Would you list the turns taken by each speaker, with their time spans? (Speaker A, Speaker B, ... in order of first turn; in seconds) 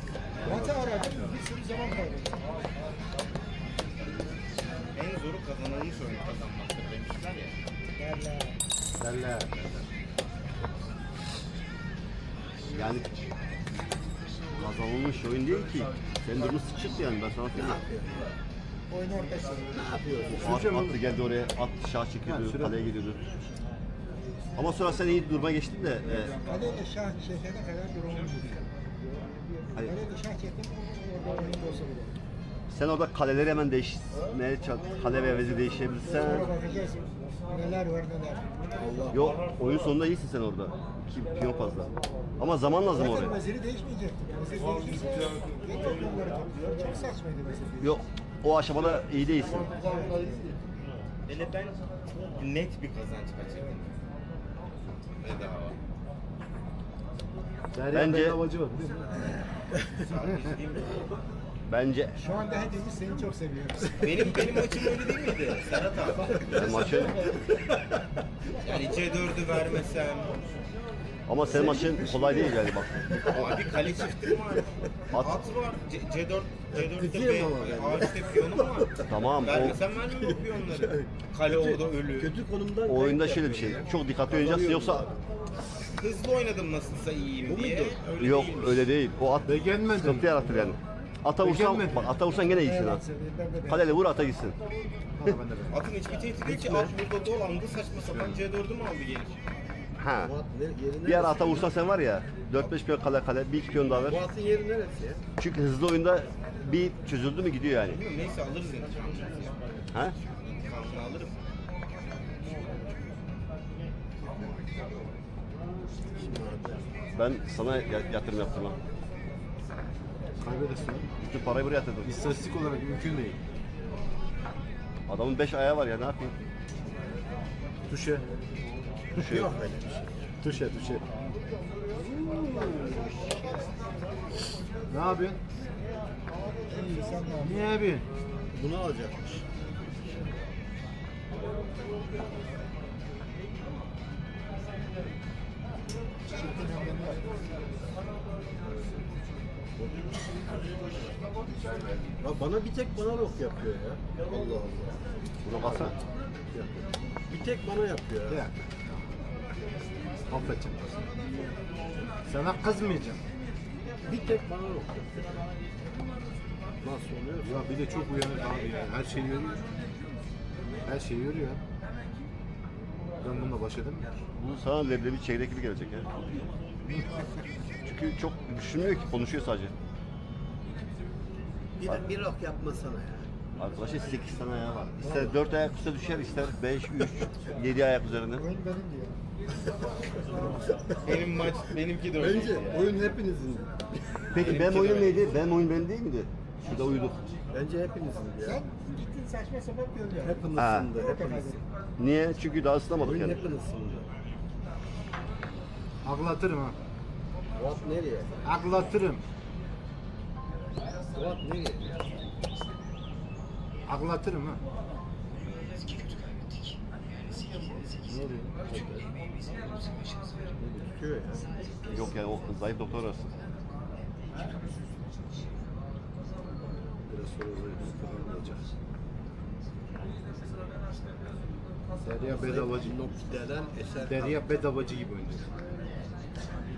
Speaker A: 0.4-2.4, 8.0-8.6, 18.9-19.7, 26.4-32.1, 36.1-38.5, 42.9-47.9, 49.8-50.5, 62.2-64.4, 66.3-67.4, 92.6-93.9, 136.7-137.6, 146.3-147.2, 188.3-189.2, 198.4-201.6
Speaker B: 0.5-0.7, 9.0-9.8, 20.4-20.9, 22.2-22.8, 57.7-59.1, 89.4-90.7, 91.4-92.1, 95.2-95.8, 98.0-98.4, 120.4-121.1, 122.0-123.4, 127.9-128.3, 130.4-131.0, 134.9-135.4, 137.4-138.1, 158.3-158.5, 160.3-160.8, 162.2-163.2, 167.4-169.6, 170.8-171.6, 173.2-174.1, 206.0-206.8, 208.4-209.2, 213.8-214.6, 218.0-218.6, 227.1-228.6, 232.0-232.9, 234.1-235.5
Speaker C: 4.9-7.5, 51.3-53.9, 55.2-55.8, 59.8-61.0, 64.0-66.4, 68.6-70.6, 73.2-82.3, 85.9-88.8, 95.7-99.4, 107.9-109.6, 110.4-111.3, 191.0-192.9, 194.3-195.3
Speaker D: 12.7-13.1, 14.6-17.8, 20.3-23.2, 24.6-26.4, 32.7-36.5, 39.1-43.4, 47.8-49.9, 57.9-58.4, 61.6-62.2, 66.5-67.2, 71.3-73.3, 75.1-75.4, 79.1-79.8, 82.8-85.1, 88.2-93.0, 93.6-94.6, 100.0-100.3, 101.0-104.2, 105.4-108.0, 109.9-110.2, 117.1-118.8, 121.2-122.2, 125.1-126.4, 129.1-129.6, 155.4-155.9, 174.3-176.2, 177.7-179.7, 183.6-188.5, 194.3-197.2, 200.5-200.9, 202.0-203.4, 221.9-223.3
Speaker E: 17.6-18.1, 19.7-20.5, 38.8-39.4, 71.5-74.3, 76.7-85.1, 87.5-88.2, 96.4-96.9, 100.2-101.7, 104.0-105.2, 116.1-116.9, 129.2-130.2, 132.0-133.4, 138.5-139.4, 148.7-148.9, 152.2-156.0, 156.5-158.4, 164.1-165.2, 166.8-167.7, 181.8-183.3, 185.0-185.3, 192.1-194.4, 197.5-198.6, 200.2-201.6, 202.9-204.1, 207.5-208.3, 211.1-211.9, 220.6-221.5, 232.3-234.4